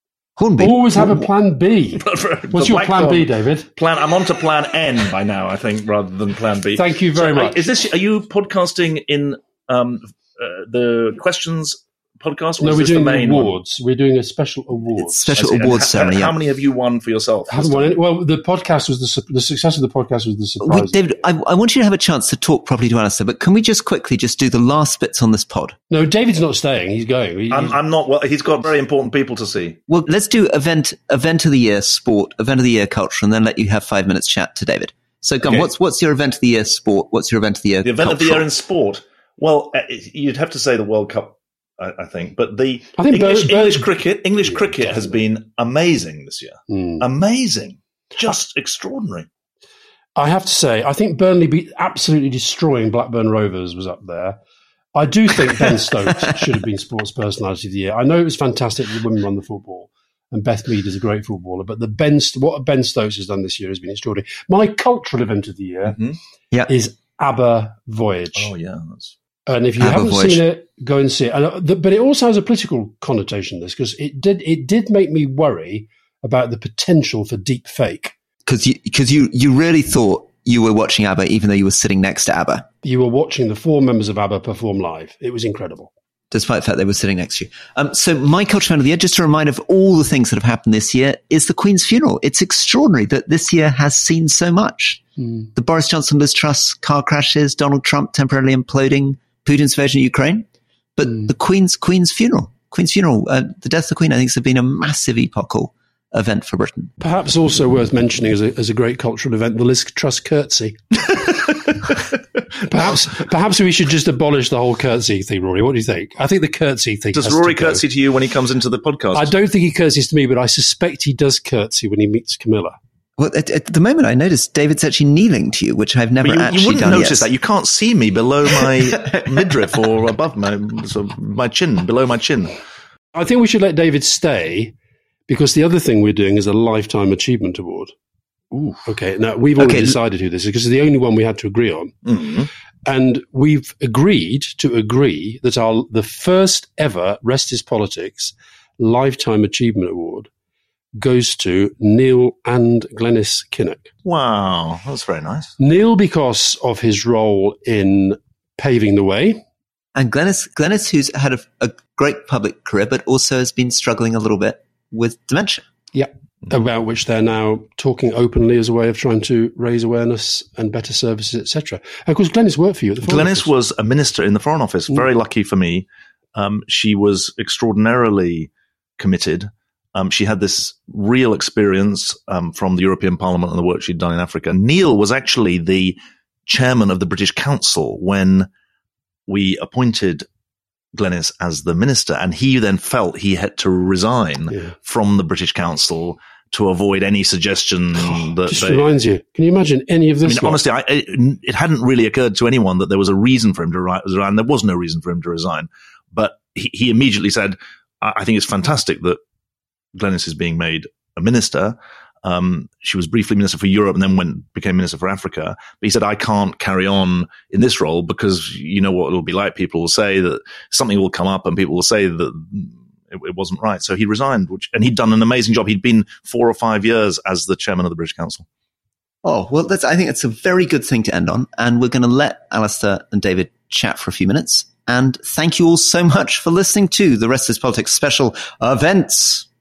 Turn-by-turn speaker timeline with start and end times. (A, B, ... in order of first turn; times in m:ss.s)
0:00.4-0:01.3 A
0:00.6-0:03.7 B
0:02.0-0:13.6 C
0:06.8-0:07.6 B
0:12.6-0:15.2 B
0:15.0-0:16.4 A
0:15.3-0:18.0 C
0:17.5-0:21.0 B
0:20.6-0:25.8 A
0:25.9-0:27.8 B
0:27.5-0:29.8 C
0:29.9-0:38.5 A
0:37.8-0:49.3 C
0:43.0-0:43.9 B
0:44.6-0:45.1 B
0:46.7-0:47.0 B
0:50.2-0:54.4 B
0:55.0-1:06.0 B
1:05.9-1:06.2 C
1:06.7-1:08.5 B
1:08.4-1:09.1 C
1:09.5-1:18.2 B
1:09.8-1:10.4 A
1:18.5-1:22.7 A
1:22.8-1:25.9 B
1:26.3-1:35.0 A
1:35.6-1:46.9 A
1:47.0-1:51.4 B
1:52.7-1:57.8 B
1:57.1-1:59.3 C
1:59.1-2:02.8 B
2:03.2-2:07.3 A
2:06.2-2:12.6 C
2:08.5-2:09.3 A
2:13.2-2:14.7 B
2:15.3-2:17.9 B
2:18.5-2:22.0 B
2:19.6-2:20.0 A
2:22.1-2:22.5 C
2:22.9-2:30.3 B
2:31.0-2:33.9 B
2:34.0-2:35.5 C
2:35.6-2:39.4 B
2:40.0-2:45.6 A
2:45.9-2:53.5 B
2:53.0-3:08.5 C
3:09.3-3:10.2 C
3:11.0-3:18.9 C
3:18.0-3:20.6 B
3:20.2-3:29.2 C
3:30.0-3:48.4 C
3:49.2-3:59.5 A